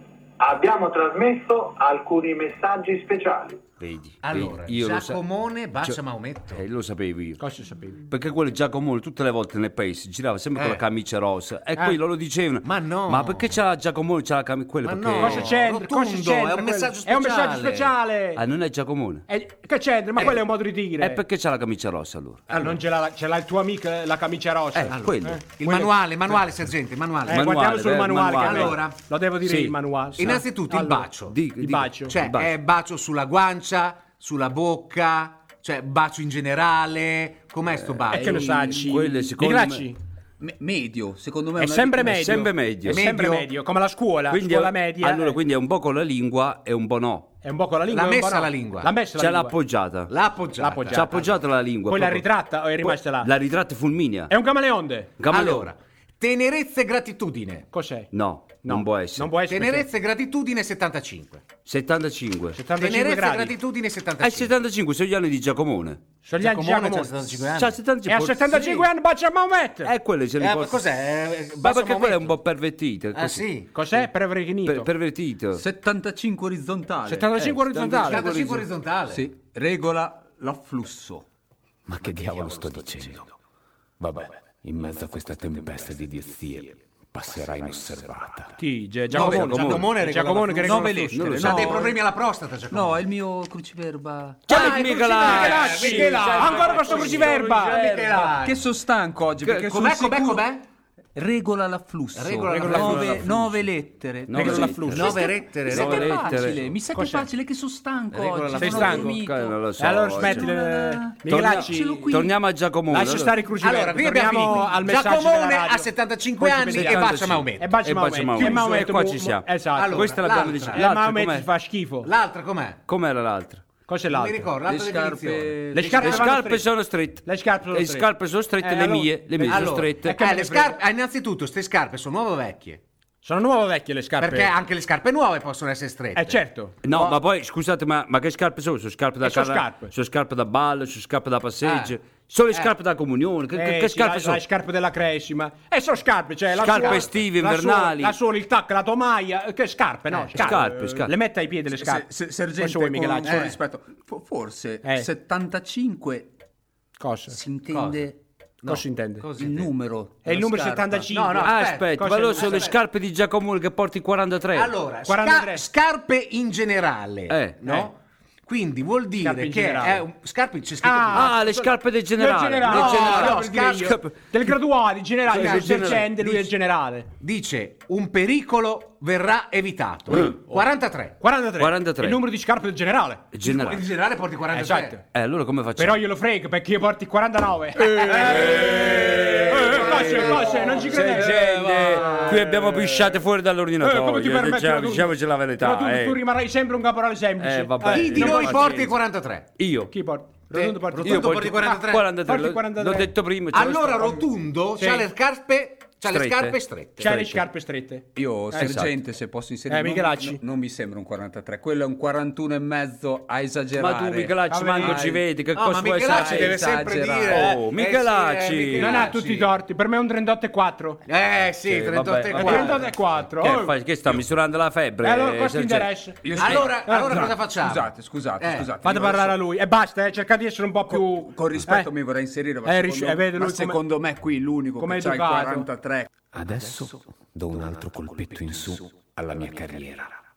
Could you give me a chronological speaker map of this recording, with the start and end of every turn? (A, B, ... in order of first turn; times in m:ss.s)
0:00.4-0:03.6 A
0:03.8-0:05.2 B
0:04.2-0:06.6 C
0:06.5-0:07.4 B
0:07.4-0:08.0 D
0:08.1-0:15.5 B
0:10.5-0:10.8 C
0:12.6-0:13.6 C
0:14.8-0:17.9 C
0:15.2-0:18.4 D
0:18.4-0:19.2 B
0:19.3-0:21.2 D
0:21.0-0:22.5 B
0:22.5-0:22.8 C
0:22.5-0:25.9 D
0:24.8-0:25.6 B
0:24.9-0:27.5 C
0:27.2-0:32.1 D
0:27.3-0:28.8 B
0:28.4-0:29.0 C
0:29.4-0:30.4 B
0:30.2-0:31.4 C
0:31.3-0:32.5 B
0:32.1-0:38.8 C
0:37.9-0:39.9 B
0:38.1-0:40.0 D
0:40.4-0:42.5 E
0:41.6-0:45.4 D
0:42.2-0:43.0 B
0:42.8-0:43.5 C
0:44.3-0:47.3 B
0:47.4-0:49.5 D
0:47.9-0:48.9 C
0:49.2-0:50.1 B
0:50.1-0:51.4 C
0:50.6-0:51.3 D
0:50.9-0:52.3 B
0:51.9-0:53.3 D
0:52.8-0:54.3 B
0:54.3-0:55.1 D
0:55.2-0:55.7 B
0:55.3-0:57.7 C
0:57.7-0:58.1 D
0:58.1-0:59.4 B
0:58.6-0:59.9 D
0:59.5-1:01.4 C
1:01.6-1:02.6 B
1:02.5-1:03.5 D
1:02.8-1:04.5 C
1:04.2-1:06.0 B
1:06.2-1:07.1 D
1:06.4-1:07.8 C
1:07.5-1:08.7 B
1:08.1-1:09.9 D
1:08.5-1:08.8 C
1:09.8-1:10.8 B
1:10.4-1:12.4 C
1:11.6-1:13.4 B
1:13.1-1:13.7 C
1:13.8-1:14.9 D
1:14.6-1:15.6 B
1:15.6-1:17.4 E
1:17.0-1:18.3 D
1:17.4-1:18.6 B
1:18.0-1:19.3 C
1:18.3-1:18.6 E
1:19.1-1:21.2 E
1:21.8-1:23.3 F
1:24.0-1:28.6 F
1:28.6-1:31.3 D
1:29.1-1:33.0 C
1:29.1-1:29.9 B
1:30.6-1:32.0 E
1:31.1-1:31.8 B
1:32.7-1:34.5 E
1:34.5-1:38.3 B
1:34.5-1:38.7 C
1:35.1-1:37.8 D
1:36.0-1:36.7 E
1:38.4-1:40.5 E
1:39.7-1:40.6 C
1:41.1-1:49.6 E
1:42.1-1:43.6 C
1:42.5-1:43.1 D
1:42.6-1:43.3 B
1:44.3-1:46.7 B
1:44.3-1:45.0 D
1:44.9-1:46.5 C
1:46.9-1:47.3 D
1:48.1-1:50.5 B
1:48.6-1:49.2 D
1:49.8-1:52.3 D
1:50.2-1:52.3 E
1:51.3-1:53.4 B
1:52.9-2:00.1 D
1:53.6-1:57.8 C
1:56.6-2:01.5 B
1:58.4-1:58.8 C
1:59.8-2:00.8 C
2:00.7-2:02.1 D
2:02.0-2:02.8 C
2:02.9-2:03.6 B
2:03.9-2:04.5 D
2:04.1-2:06.4 C
2:04.7-2:06.0 E
2:05.7-2:06.7 D
2:05.8-2:10.2 B
2:07.2-2:08.1 D
2:08.6-2:10.8 D
2:09.5-2:12.8 C
2:13.2-2:14.5 D
2:14.2-2:17.1 C
2:16.2-2:16.8 D
2:16.8-2:24.4 B
2:19.2-2:19.9 D
2:21.6-2:21.9 C
2:23.5-2:33.4 D
2:26.6-2:28.2 B
2:26.7-2:27.1 C
2:30.3-2:31.1 B
2:30.4-2:31.1 E
2:31.7-2:36.3 E
2:33.2-2:33.6 C
2:34.8-2:35.1 D
2:37.0-2:37.4 D
2:37.3-2:38.2 E
2:37.7-2:38.1 C
2:38.6-2:39.7 C
2:38.7-2:39.2 D
2:39.4-2:41.1 E
2:40.2-2:42.7 D
2:41.1-2:42.8 C
2:41.4-2:44.7 B
2:44.5-2:51.3 C
2:45.1-2:45.6 D
2:47.3-2:47.6 B
2:49.2-2:50.0 D
2:50.8-2:57.1 D
2:51.1-2:54.1 B
2:52.6-2:54.0 C
2:55.3-2:56.5 B
2:55.3-2:56.1 C
2:57.2-3:01.2 C
3:01.2-3:03.3 D
3:01.6-3:02.2 B
3:03.3-3:03.8 B
3:03.4-3:05.0 C
3:04.5-3:05.0 D
3:05.1-3:06.0 B
3:05.8-3:12.4 D
3:07.8-3:16.2 B
3:08.1-3:12.5 C
3:13.8-3:18.9 D
3:17.4-3:18.9 B
3:17.8-3:19.5 C
3:19.6-3:19.9 B
3:19.9-3:23.1 D
3:20.5-3:22.1 C
3:21.0-3:24.2 B
3:23.5-3:27.0 C
3:24.8-3:25.1 D
3:26.0-3:27.4 B
3:27.0-3:28.8 D
3:28.1-3:34.5 E
3:28.6-3:28.9 B
3:29.7-3:30.4 D
3:33.8-3:36.7 B
3:34.5-3:35.1 D
3:35.5-3:39.5 C
3:36.1-3:37.5 E
3:37.3-3:39.1 B
3:38.7-3:41.0 D
3:41.0-3:43.0 C
3:41.7-3:46.0 B
3:42.3-3:43.7 D
3:45.0-3:47.3 D
3:46.2-3:49.4 E
3:46.3-3:48.7 C
3:48.8-3:51.9 D
3:50.9-3:56.1 E
3:52.6-3:53.8 D
3:54.8-3:55.7 D
3:56.3-4:00.2 F